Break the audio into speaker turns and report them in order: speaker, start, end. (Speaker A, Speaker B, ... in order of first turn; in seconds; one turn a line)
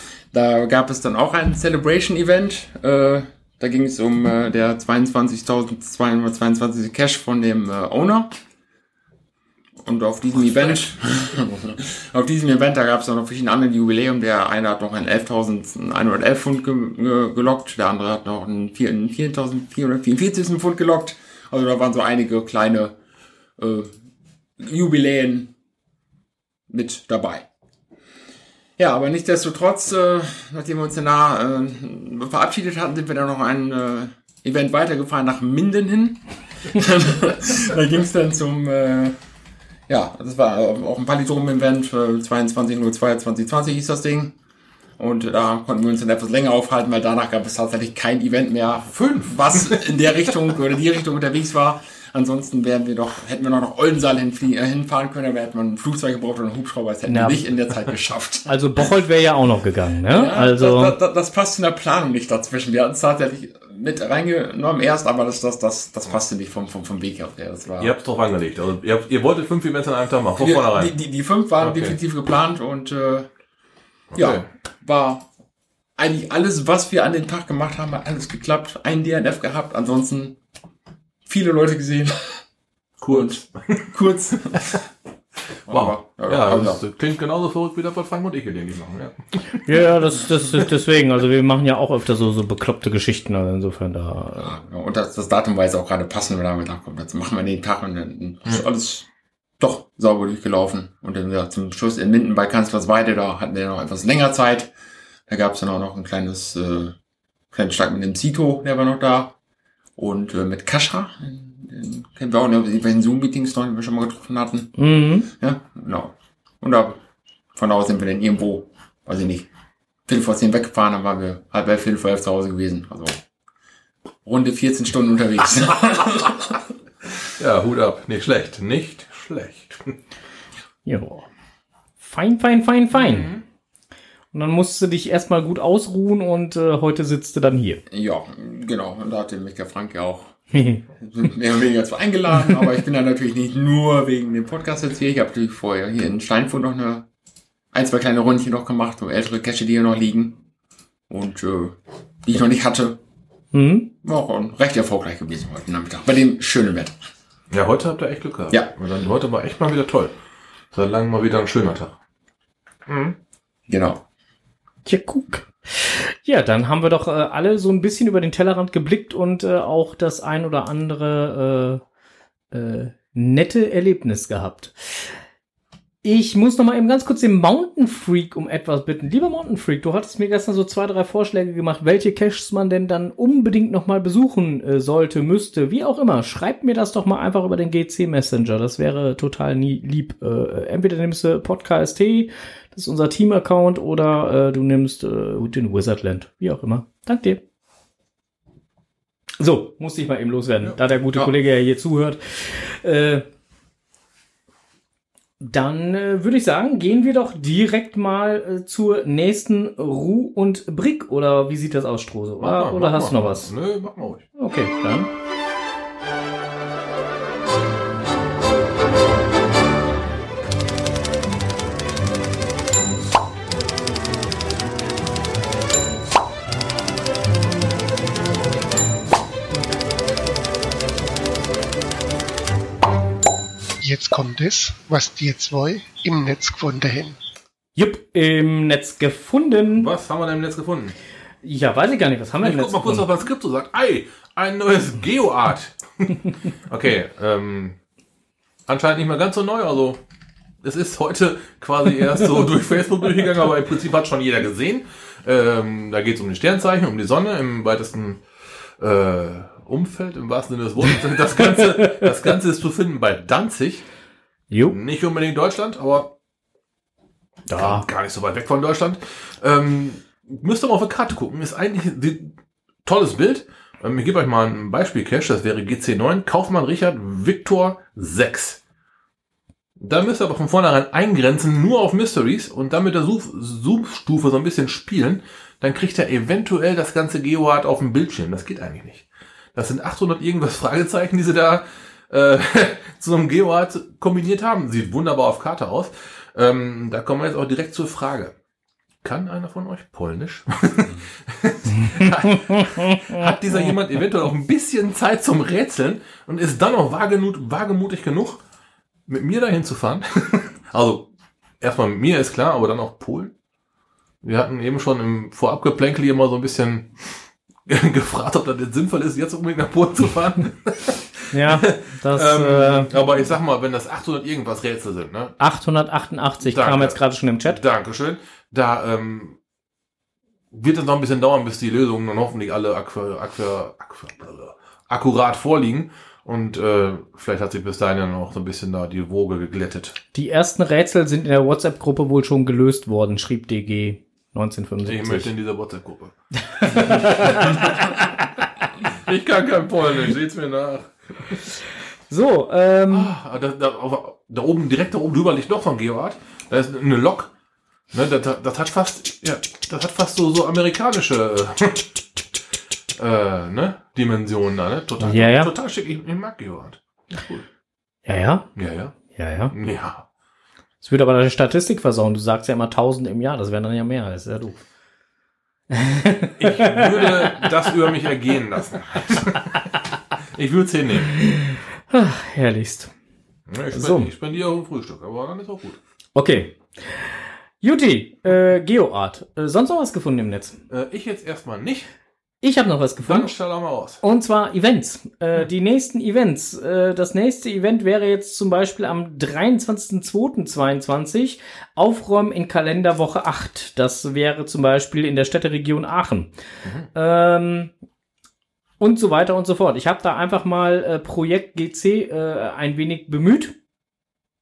Speaker A: 0.3-8.4
Speaker A: 9.8-22.9
Speaker A: 23.6-23.9
Speaker A: 24.6-25.5
Speaker A: 26.7-27.4
Speaker A: 28.8-39.2
Speaker A: 39.9-44.3
Speaker A: 45.0-58.8
Speaker B: 48.8-49.8
Speaker C: 57.0-57.4
Speaker C: 58.5-61.0
Speaker A: 60.1-67.9
Speaker B: 67.8-70.9
Speaker A: 70.4-73.3
Speaker B: 71.6-72.0
Speaker B: 74.1-74.5
Speaker A: 74.1-75.2
Speaker A: 76.0-80.4
Speaker A: 81.2-82.4
Speaker B: 83.0-83.9
Speaker A: 83.1-84.8
Speaker A: 85.7-86.8
Speaker B: 85.7-89.8
Speaker C: 89.7-94.5
Speaker A: 94.4-99.0
Speaker A: 99.6-104.7
Speaker A: 105.3-107.0
Speaker A: 107.5-109.3
Speaker A: 110.0-114.8
Speaker C: 114.8-115.3
Speaker A: 115.3-117.0
Speaker A: 117.5-119.5
Speaker A: 120.0-123.2
Speaker A: 124.2-126.5
Speaker B: 127.3-129.9
Speaker C: 130.8-131.3
Speaker C: 132.0-133.3
Speaker B: 132.9-133.4
Speaker C: 134.3-137.8
Speaker A: 137.9-140.3
Speaker C: 140.5-140.8
Speaker A: 141.0-147.0
Speaker A: 147.7-150.4
Speaker A: 151.1-153.0
Speaker C: 153.5-153.9
Speaker A: 154.0-156.9
Speaker B: 157.5-160.2
Speaker B: 160.7-161.9
Speaker A: 163.7-164.0
Speaker C: 164.8-171.8
Speaker C: 172.5-175.1
Speaker C: 176.0-197.4
Speaker C: 199.4-203.2
Speaker C: 205.4-213.5
Speaker B: 212.4-214.2
Speaker C: 214.4-215.1
Speaker D: 233.8-237.2
Speaker C: 237.8-239.9
Speaker B: 239.7-240.9
Speaker C: 241.4-243.1
Speaker B: 242.4-246.2
Speaker B: 246.7-247.8
Speaker B: 248.7-250.0
Speaker B: 250.6-258.2
Speaker B: 258.8-263.8
Speaker C: 261.6-262.1
Speaker C: 264.5-264.8
Speaker B: 264.7-266.1
Speaker C: 267.5-267.9
Speaker B: 267.5-278.6
Speaker B: 279.8-298.3
Speaker B: 299.0-308.4
Speaker C: 302.3-303.2
Speaker B: 309.1-311.1
Speaker B: 311.6-313.3
Speaker B: 314.2-325.3
Speaker C: 321.3-322.9
Speaker C: 325.4-327.6
Speaker B: 326.4-329.4
Speaker B: 330.5-340.0
Speaker C: 340.1-345.3
Speaker B: 344.8-346.1
Speaker C: 346.5-348.0
Speaker B: 346.7-347.8
Speaker B: 348.8-351.4
Speaker C: 352.1-353.1
Speaker B: 352.9-357.3
Speaker B: 357.9-362.0
Speaker B: 362.9-367.4
Speaker C: 365.0-365.5
Speaker C: 368.1-368.5
Speaker B: 368.6-368.9
Speaker C: 369.1-369.5
Speaker B: 369.5-370.1
Speaker C: 370.8-374.6
Speaker C: 375.7-377.4
Speaker B: 376.4-379.7
Speaker B: 380.3-381.1
Speaker C: 381.2-382.9
Speaker B: 383.5-385.8
Speaker C: 383.7-384.1
Speaker C: 386.1-390.6
Speaker B: 390.7-391.9
Speaker C: 392.4-393.3
Speaker B: 393.0-394.0
Speaker C: 394.0-406.3
Speaker C: 406.9-407.7
Speaker C: 408.8-413.5